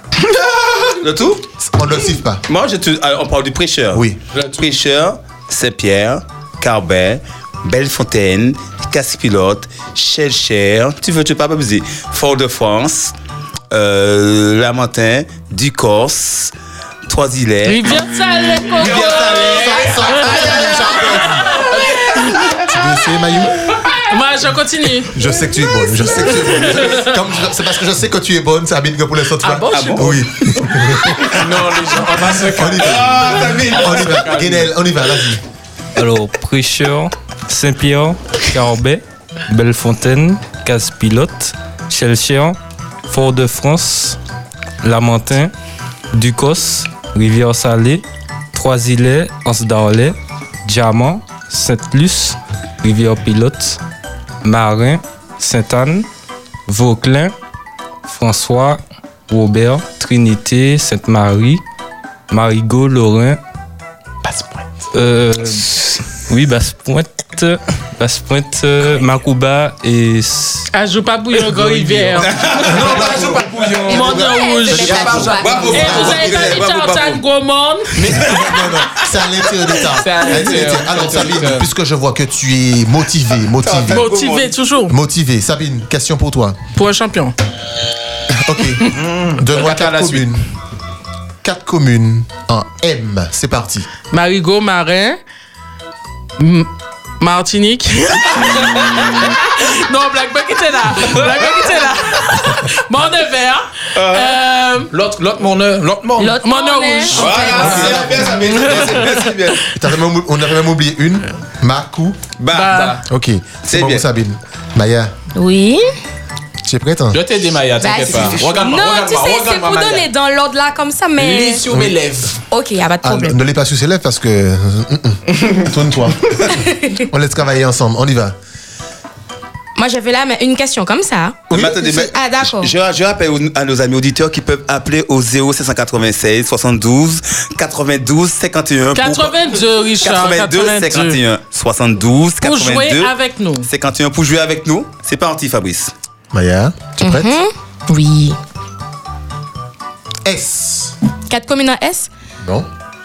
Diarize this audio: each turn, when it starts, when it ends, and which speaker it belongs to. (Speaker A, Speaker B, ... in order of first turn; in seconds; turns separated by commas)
Speaker A: 1.0-1.4, Speaker B: 1.6-2.4, Speaker A: 2.5-13.1, Speaker B: 3.9-4.2, Speaker C: 4.3-4.7, Speaker A: 13.7-16.5, Speaker A: 17.1-18.0, Speaker D: 17.6-22.4, Speaker A: 18.7-21.4, Speaker B: 19.3-21.5, Speaker B: 22.6-23.7, Speaker D: 23.8-25.1, Speaker B: 25.1-31.4, Speaker D: 26.0-27.1, Speaker D: 29.4-30.1, Speaker A: 29.7-31.4, Speaker C: 31.3-34.7, Speaker B: 32.5-35.4, Speaker A: 32.7-34.3, Speaker E: 36.0-42.6, Speaker E: 43.1-44.2, Speaker E: 44.8-45.5, Speaker E: 46.1-53.8, Speaker E: 54.4-56.0, Speaker E: 56.7-57.3, Speaker E: 58.0-61.6, Speaker E: 62.3-63.4, Speaker C: 64.2-64.7, Speaker E: 64.9-70.7, Speaker D: 70.7-72.3, Speaker C: 71.5-74.3, Speaker A: 72.2-73.8, Speaker B: 72.6-76.6, Speaker D: 73.8-78.1, Speaker F: 74.1-76.0, Speaker C: 74.8-75.9, Speaker A: 74.9-77.2, Speaker C: 78.0-78.4, Speaker B: 78.1-84.0, Speaker C: 80.0-81.7, Speaker A: 83.6-84.5, Speaker D: 83.9-84.9, Speaker B: 84.9-86.6, Speaker D: 86.7-87.3, Speaker B: 88.3-90.4, Speaker C: 88.9-90.3, Speaker B: 91.4-93.9, Speaker D: 94.1-95.2, Speaker D: 96.4-104.9, Speaker A: 103.9-104.4, Speaker C: 104.9-106.4, Speaker F: 106.2-107.9, Speaker D: 106.4-107.7, Speaker A: 107.1-109.6, Speaker C: 107.2-108.0, Speaker B: 107.5-108.9, Speaker D: 108.7-109.2, Speaker B: 109.7-112.2, Speaker A: 112.4-112.9, Speaker D: 112.5-113.0, Speaker B: 113.0-115.1, Speaker A: 113.6-114.0, Speaker F: 115.3-115.9, Speaker B: 116.6-117.2, Speaker C: 117.1-120.1, Speaker F: 117.8-121.7, Speaker A: 118.2-118.5, Speaker C: 121.2-122.4, Speaker F: 122.5-123.4, Speaker B: 123.0-128.3, Speaker F: 126.6-126.9, Speaker F: 129.8-132.7, Speaker B: 131.5-132.1, Speaker A: 131.5-143.1, Speaker D: 138.9-141.2, Speaker D: 142.4-143.7, Speaker A: 143.6-145.9, Speaker B: 146.3-147.4, Speaker F: 147.0-148.4, Speaker B: 150.2-150.9, Speaker F: 151.3-152.1, Speaker B: 152.4-152.7